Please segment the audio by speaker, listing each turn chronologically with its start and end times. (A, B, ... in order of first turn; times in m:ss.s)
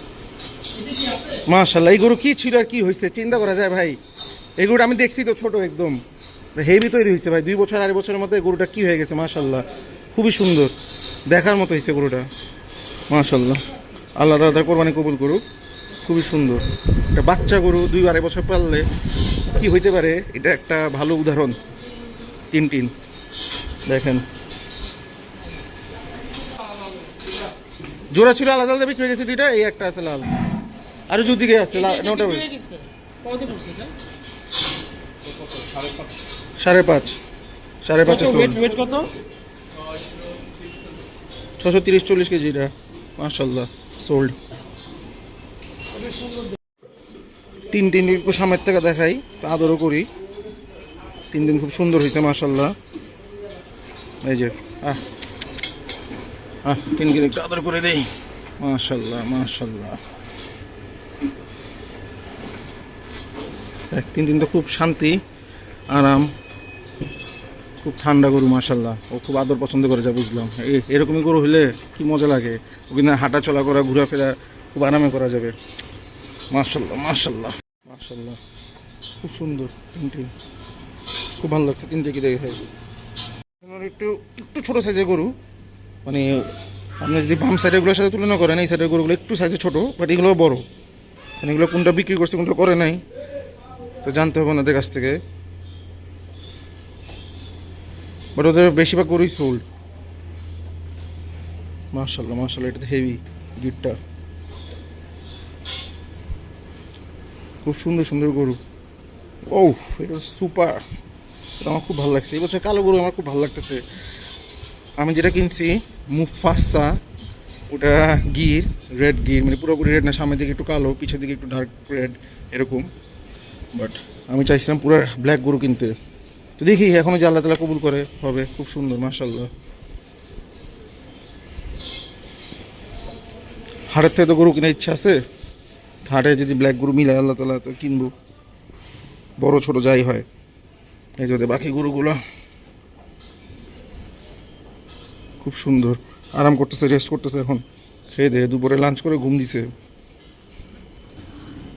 0:00.8-0:01.4 A
0:01.4-0:04.0 B
0:04.6-0:06.0 B
0:06.6-0:10.7 B
0:11.3-0:12.2 B
0:13.1-0:13.6 B
0:14.2-0:15.4 B
0:16.0-0:18.8 B
0:19.5-0:21.6 B
0:22.5-0:22.9 B
0:23.9-0:24.2 B
0:28.1-0:30.3 B
0:31.1-0:32.5 B
0:32.5-0:33.9 A
0:35.3-0:36.1 A
0:36.6-0:37.2 B
0:37.8-0:38.6 B
0:38.3-0:39.1 A
0:41.6-0:44.4 B
0:46.0-0:46.4 A
0:47.7-0:50.1 B
0:51.3-0:52.7 B
0:54.2-0:55.0 B
0:56.6-1:00.0 B
1:03.9-1:05.2 B
1:05.9-1:06.3 B
1:07.8-1:15.6 B
1:16.5-1:18.4 B
1:19.2-1:20.3 B
1:21.4-1:22.6 B
1:23.6-1:25.3 B
1:26.0-1:30.6 B
1:31.4-1:33.0 B
1:34.0-1:35.2 B
1:38.4-1:39.6 B
1:41.9-1:44.0 B
1:47.6-1:48.6 B
1:49.5-1:50.8 B
1:51.6-1:53.8 B
1:55.0-1:56.9 B
1:57.7-2:02.9 B
2:03.7-2:06.0 B
2:06.6-2:09.5 B
2:13.9-2:15.2 B
2:16.0-2:18.1 B
2:19.4-2:20.2 B
2:21.2-2:22.2 B
2:25.4-2:29.7 B